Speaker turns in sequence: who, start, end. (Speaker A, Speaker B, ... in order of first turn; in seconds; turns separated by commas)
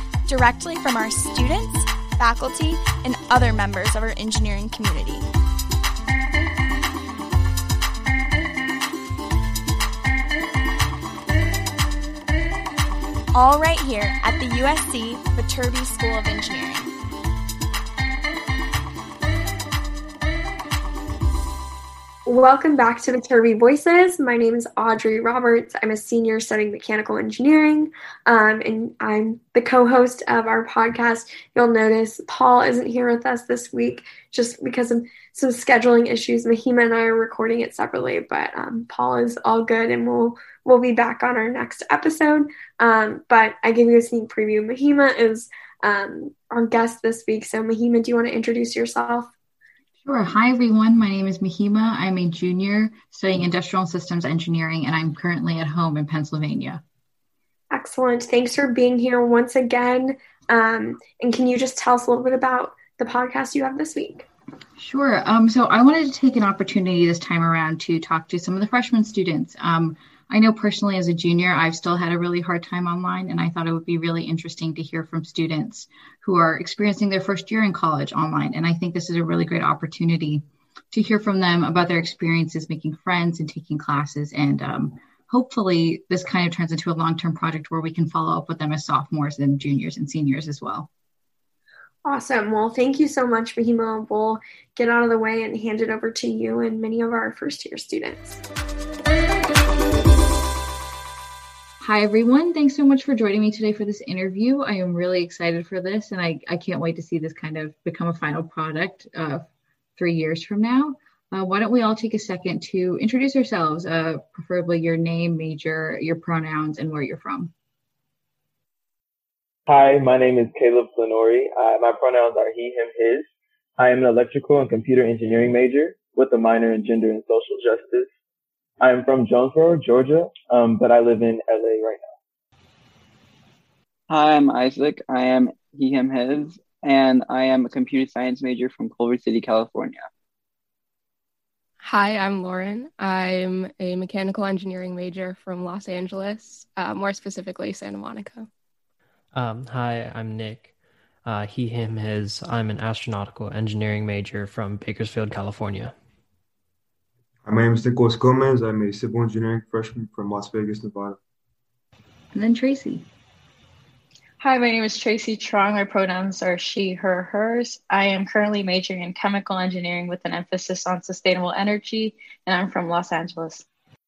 Speaker A: 0.3-5.2, Speaker A: 13.3-16.9, Speaker B: 22.3-49.3, Speaker C: 50.0-56.8, Speaker B: 57.7-64.3, Speaker C: 64.8-90.9, Speaker B: 92.0-98.4, Speaker C: 101.8-117.5, Speaker D: 119.7-128.1, Speaker D: 128.8-132.1, Speaker E: 134.1-140.1, Speaker F: 141.8-148.5, Speaker G: 149.3-150.7, Speaker G: 151.2-155.9, Speaker H: 157.4-161.2, Speaker C: 162.3-163.1, Speaker I: 164.4-173.7